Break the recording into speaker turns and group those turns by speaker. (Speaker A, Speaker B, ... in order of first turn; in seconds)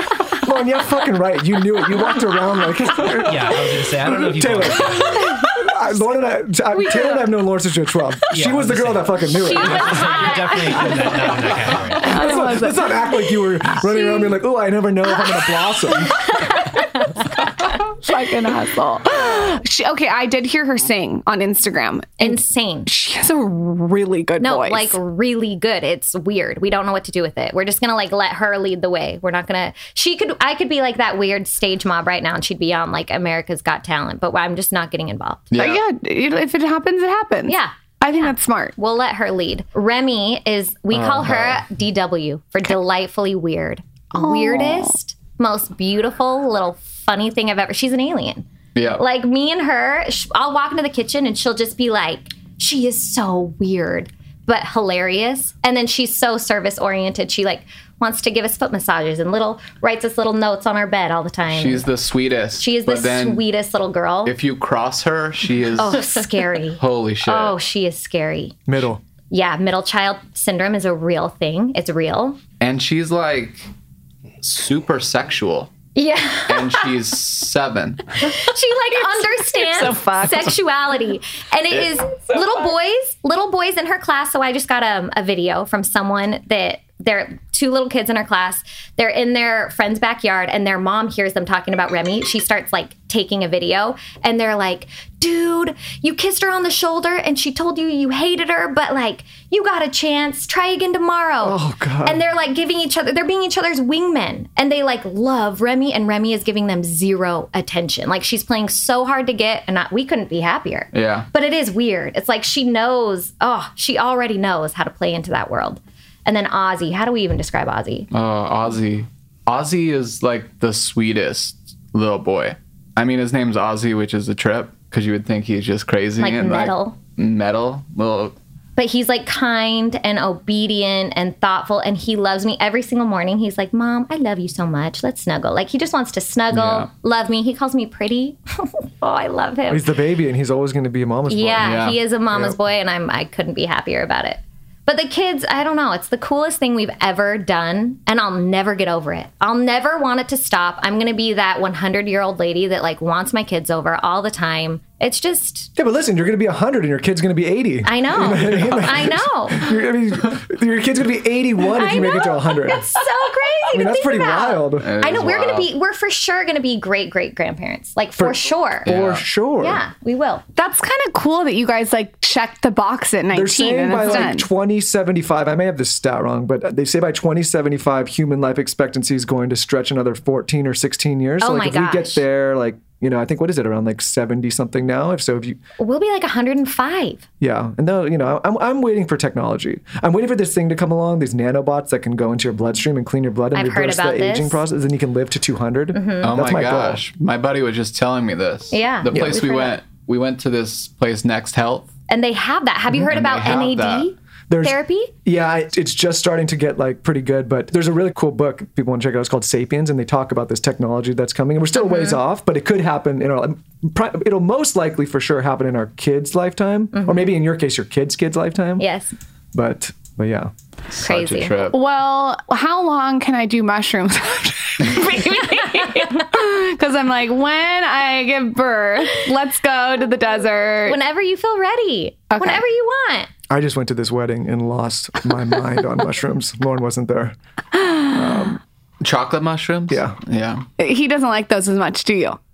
Speaker A: 0.3-10.1, 12.0-16.2, 68.7-69.0, 101.4-102.2, 139.7-142.5, 155.8-163.0, 163.7-164.9, 168.2-169.8, 173.3-185.6, 187.4-197.0, 204.5-218.8, 219.5-220.5, 233.5-237.3, 238.1-238.6, 239.9-240.2
Speaker B: 3.1-5.3, 8.3-12.2
Speaker C: 6.7-7.2, 9.3-11.3, 13.8-14.3, 16.1-17.2, 22.2-22.9, 24.4-35.5, 37.5-61.9, 62.6-64.3, 65.8-68.6, 69.3-72.4, 75.9-76.9, 78.2-118.1, 126.2-127.0, 128.8-139.8, 141.3-155.7, 157.8-159.6, 161.7-168.9, 169.6-170.4, 181.4-182.2, 185.8-187.2, 193.5-194.6, 195.9-196.3, 198.7-199.8, 202.1-205.1, 211.8-212.2, 216.9-217.2, 218.8-219.1, 221.0-221.7, 230.8-233.3
Speaker D: 12.0-12.9, 18.0-25.0, 35.6-38.7, 44.1-44.9, 79.0-80.6, 170.6-174.5, 221.7-231.0, 232.3-232.6, 240.8-242.4
Speaker E: 35.5-35.8, 40.9-41.6, 48.7-49.0, 61.5-63.4, 64.2-66.2, 66.7-67.6, 72.6-73.7, 74.4-75.7, 76.5-78.1, 110.9-111.3, 118.1-128.3, 136.5-136.9, 141.6-142.0, 164.8-165.7, 168.8-169.2, 196.2-201.9, 203.0-204.1, 220.9-221.8, 239.0-240.7